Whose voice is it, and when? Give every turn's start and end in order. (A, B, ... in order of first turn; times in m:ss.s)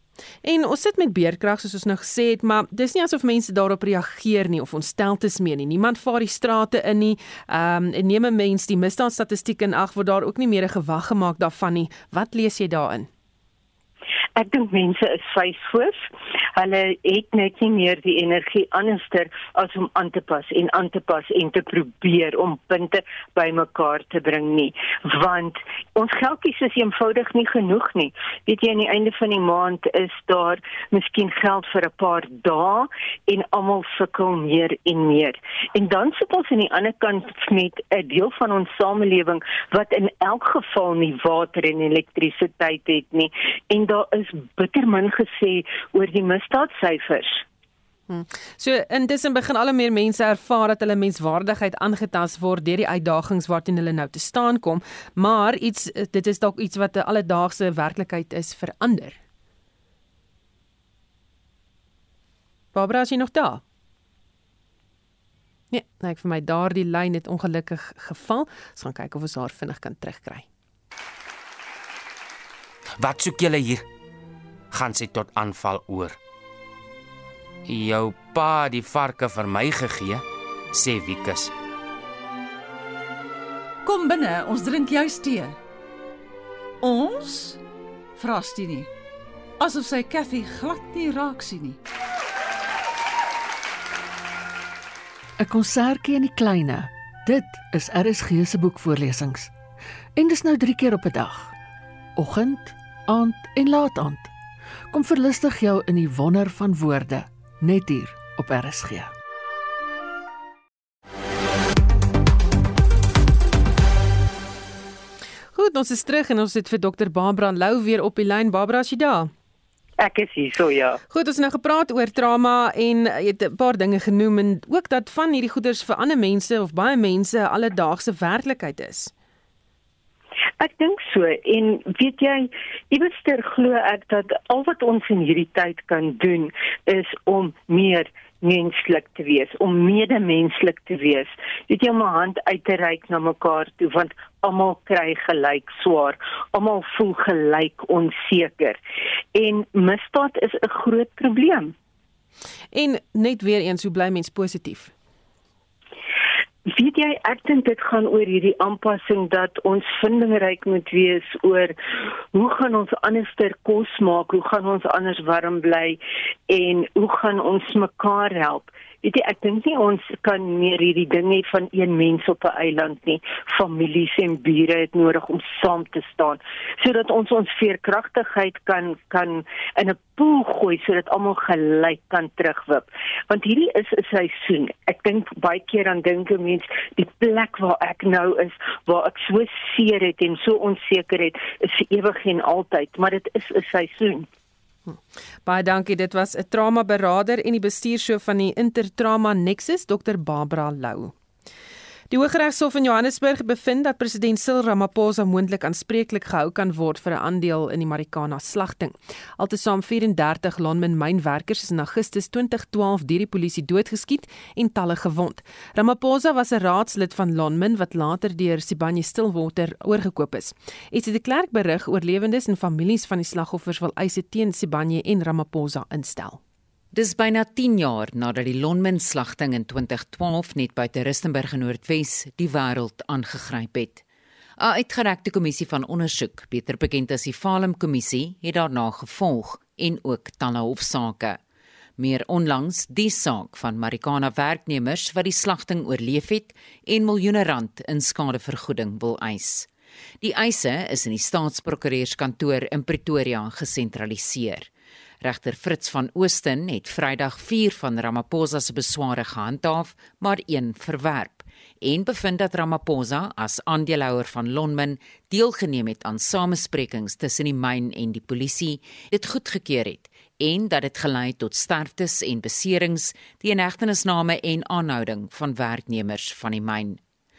0:00.4-0:13.1 A
0:14.4-0:47.4 B
0:48.1-0:59.2 A
1:02.7-1:03.6 A
1:05.7-1:10.4 A
1:13.0-1:13.8 C
1:14.7-1:16.2 C
1:17.7-1:21.5 C
1:23.8-1:25.6 D
1:26.8-1:27.6 D
1:28.2-1:28.9 D
1:29.6-1:31.8 D
1:35.4-1:39.5 E
1:40.2-1:41.5 E
1:42.2-1:44.3 E
1:44.9-1:49.1 E
1:55.5-1:59.3 A
2:00.0-2:01.0 B
2:01.1-2:09.1 A
2:10.6-2:28.8 B
2:29.3-2:31.7 B
2:32.7-2:34.9 A
2:36.7-2:41.7 B
2:42.3-3:14.3 B
3:14.9-3:21.1 A
3:22.1-3:46.4 A
3:46.9-3:54.0 F
3:54.6-4:01.4 F
4:02.0-4:09.7 F
4:10.2-4:14.7 F
4:15.2-4:37.0 F